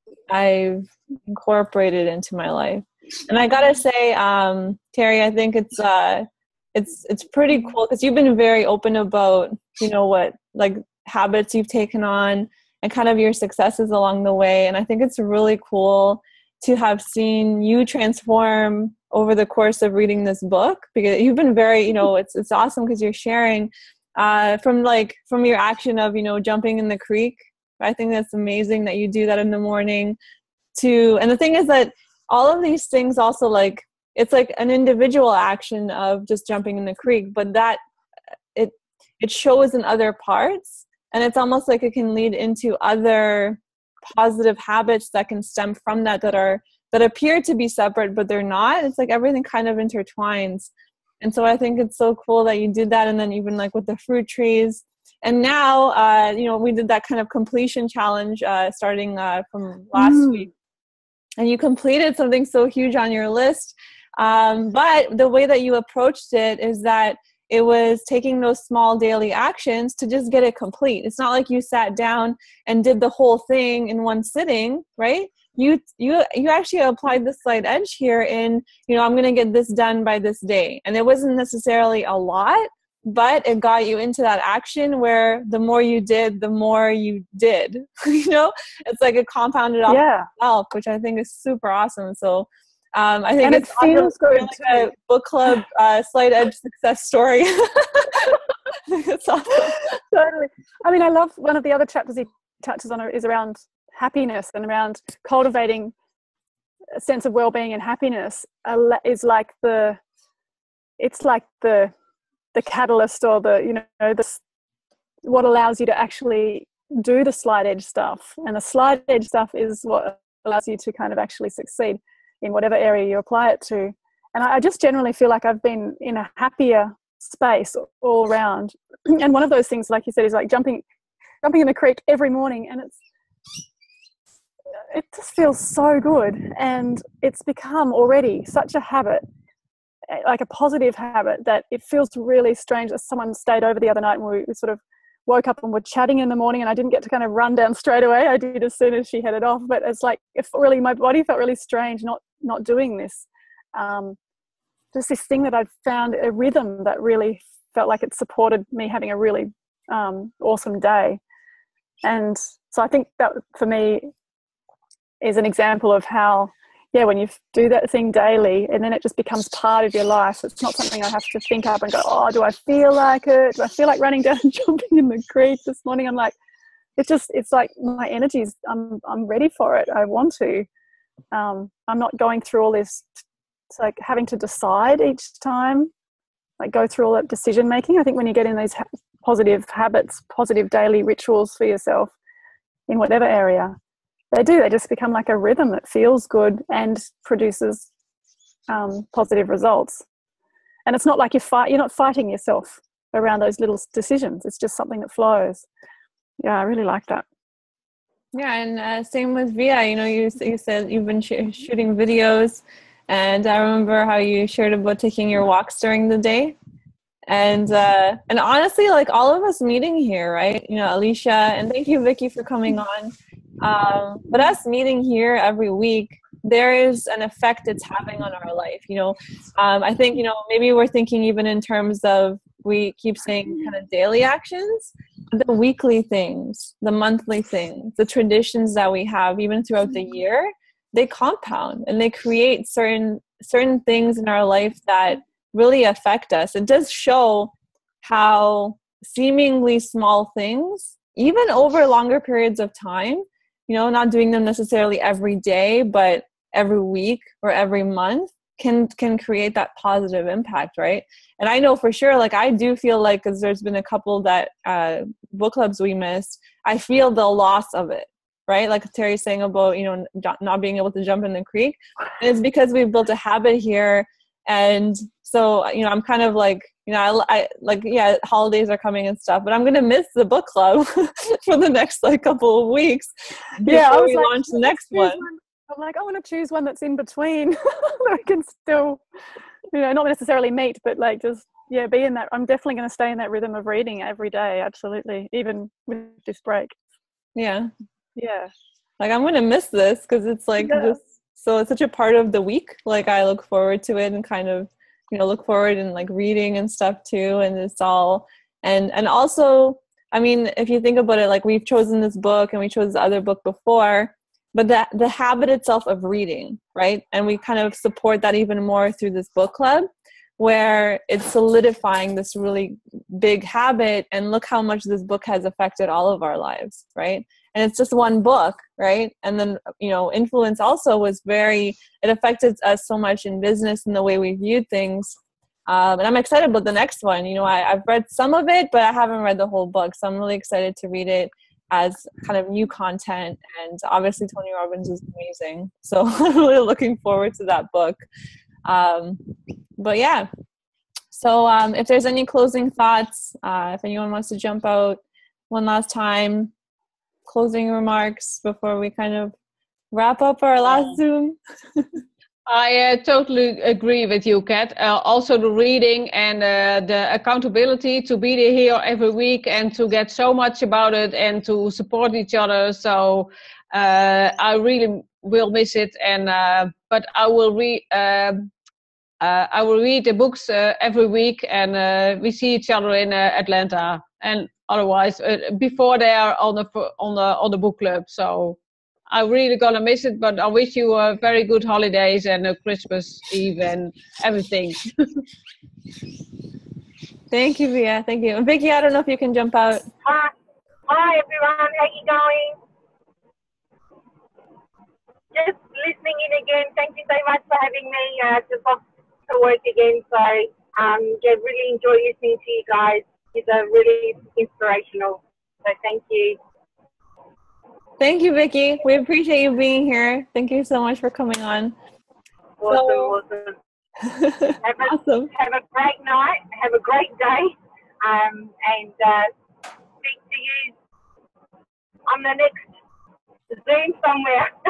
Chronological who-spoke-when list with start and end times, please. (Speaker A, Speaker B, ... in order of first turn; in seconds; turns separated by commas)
Speaker A: 0.3-30.2, Speaker A: 30.8-37.8, Speaker A: 38.5-50.7, Speaker A: 51.2-60.5, Speaker B: 59.9-60.5, Speaker A: 61.4-99.9, Speaker B: 89.9-90.3, Speaker B: 93.4-94.9, Speaker B: 99.9-105.9, Speaker B: 107.0-110.0, Speaker B: 111.0-111.9, Speaker B: 112.5-114.4, Speaker B: 115.2-130.8, Speaker B: 131.4-133.0, Speaker B: 134.8-139.2, Speaker B: 140.1-154.2, Speaker B: 154.9-161.2, Speaker B: 162.0-164.1, Speaker B: 165.2-176.3, Speaker B: 177.0-180.7, Speaker B: 181.3-185.9, Speaker B: 186.6-192.1, Speaker B: 192.9-193.7, Speaker B: 194.3-197.9, Speaker B: 198.7-200.0, Speaker B: 200.8-205.7, Speaker B: 206.4-207.2, Speaker A: 208.3-216.6, Speaker A: 217.3-285.2, Speaker B: 283.6-289.0, Speaker B: 289.7-296.7, Speaker A: 297.4-297.7, Speaker B: 298.1-298.5, Speaker A: 299.0-335.2, Speaker B: 300.6-301.0, Speaker A: 335.7-348.0, Speaker A: 348.6-350.3, Speaker A: 351.1-356.5, Speaker A: 357.2-359.3, Speaker A: 359.9-361.8, Speaker C: 362.5-378.5, Speaker C: 379.2-388.6, Speaker C: 389.1-394.8, Speaker A: 397.3-399.9, Speaker D: 400.0-400.3, Speaker D: 400.9-402.6, Speaker D: 405.3-416.4, Speaker A: 418.0-421.7, Speaker D: 422.6-423.6, Speaker A: 422.6-423.2, Speaker A: 424.0-425.3, Speaker D: 424.6-429.3, Speaker D: 430.0-430.7, Speaker D: 432.1-432.7, Speaker D: 433.5-434.5